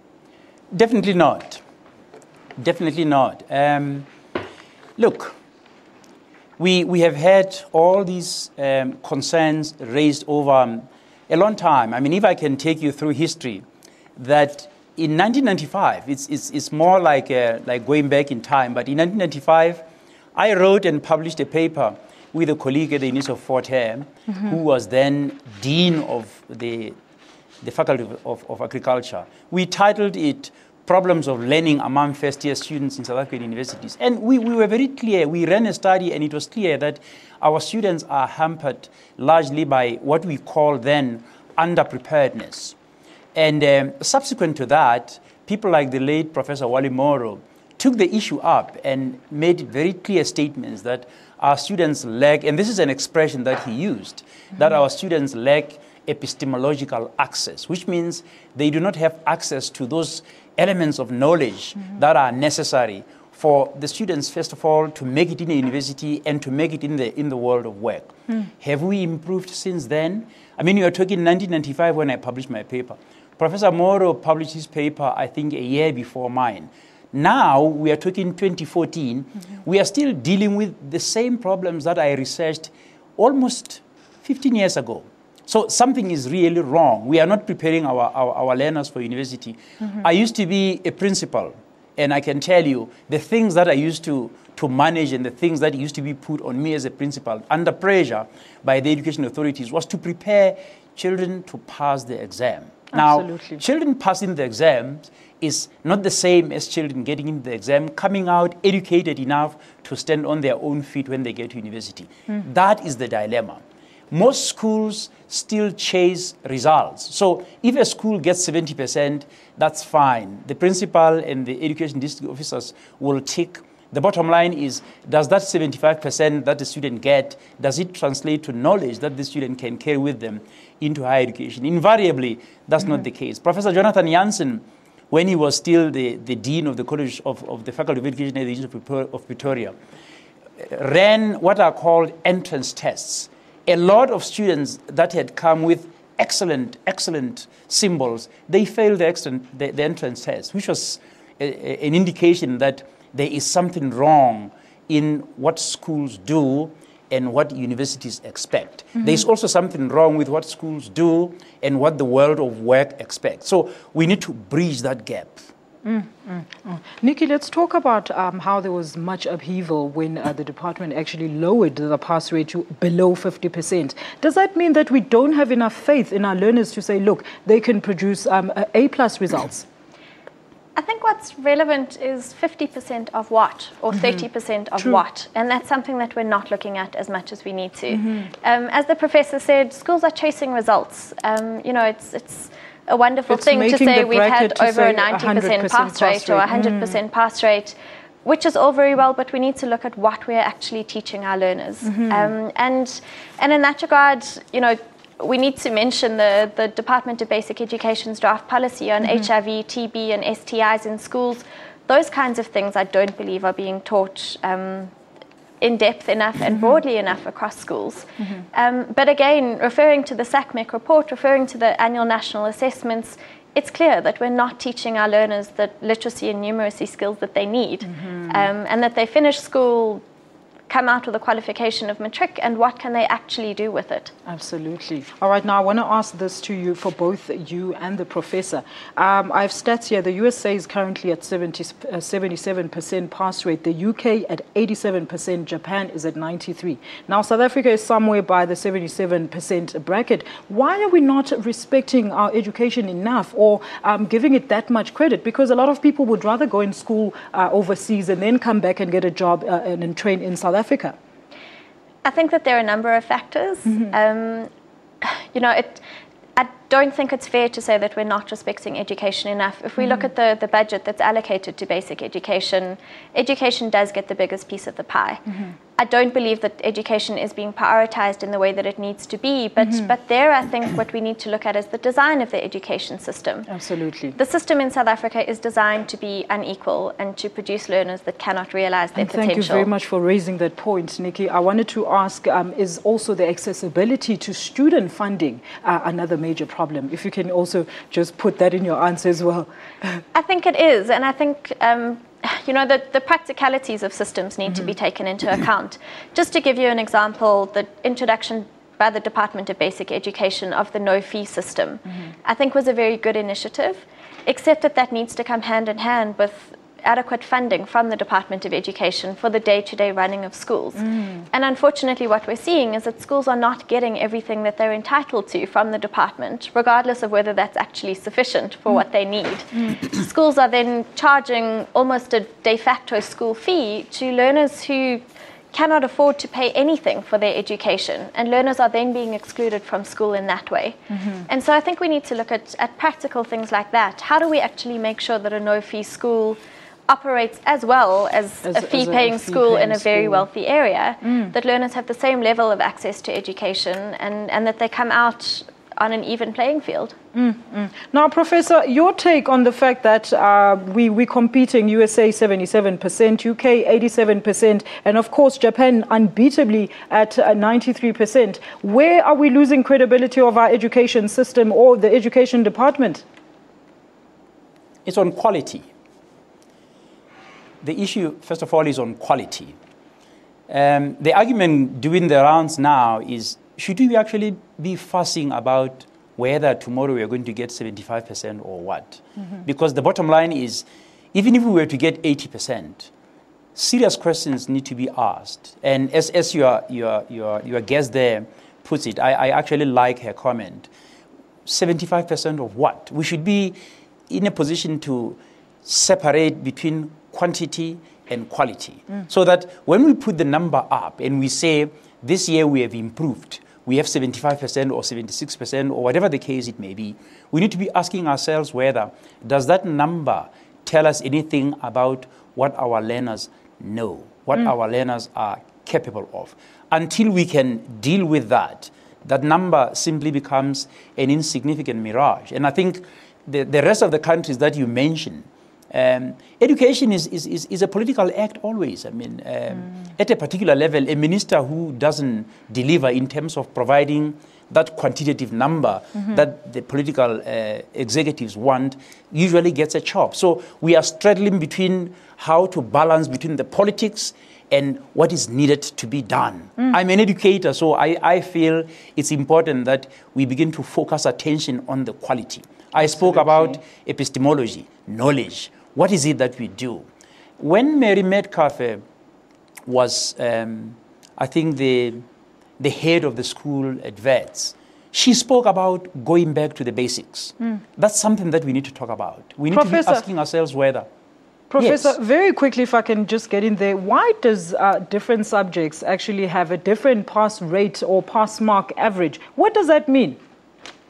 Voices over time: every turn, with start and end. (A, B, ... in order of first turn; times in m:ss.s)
0:00.7-0:01.6 A
0:02.6-0:04.1 A
0:05.0-0:05.4 A
0:06.6-0:13.6 A
0:14.2-0:19.8 A
0:20.4-0:27.0 A
0:27.6-0:42.8 A
0:43.4-2:19.8 A
1:42.9-1:43.6 B
2:20.6-2:45.5 A
2:45.8-2:59.7 B
3:00.8-3:34.9 C
3:13.3-3:17.0 B
3:21.8-3:22.3 B
3:35.6-3:50.0 C
3:48.0-3:48.3 B
3:50.7-3:54.1 C
3:54.3-4:21.0 B
4:22.0-4:24.5 C
4:25.0-4:25.8 C
4:26.4-4:35.2 C
4:35.8-4:43.5 C
4:43.5-4:44.2 B
4:44.2-4:49.7 C
4:49.0-5:00.0 B
5:00.1-5:57.0 C
5:40.9-5:41.3 B
5:48.4-5:50.3 B
5:51.0-5:51.3 B
5:57.1-6:13.0 B
6:14.8-6:15.7 A
6:17.6-6:19.6 A
6:20.5-6:32.9 A
6:33.6-6:40.7 A
6:41.5-7:46.9 A
7:42.9-7:43.6 B
7:47.4-7:48.8 A
7:49.7-7:52.0 A
7:52.6-8:00.9 A
7:59.5-8:00.0 B
8:01.5-8:10.2 B
8:01.6-8:02.0 A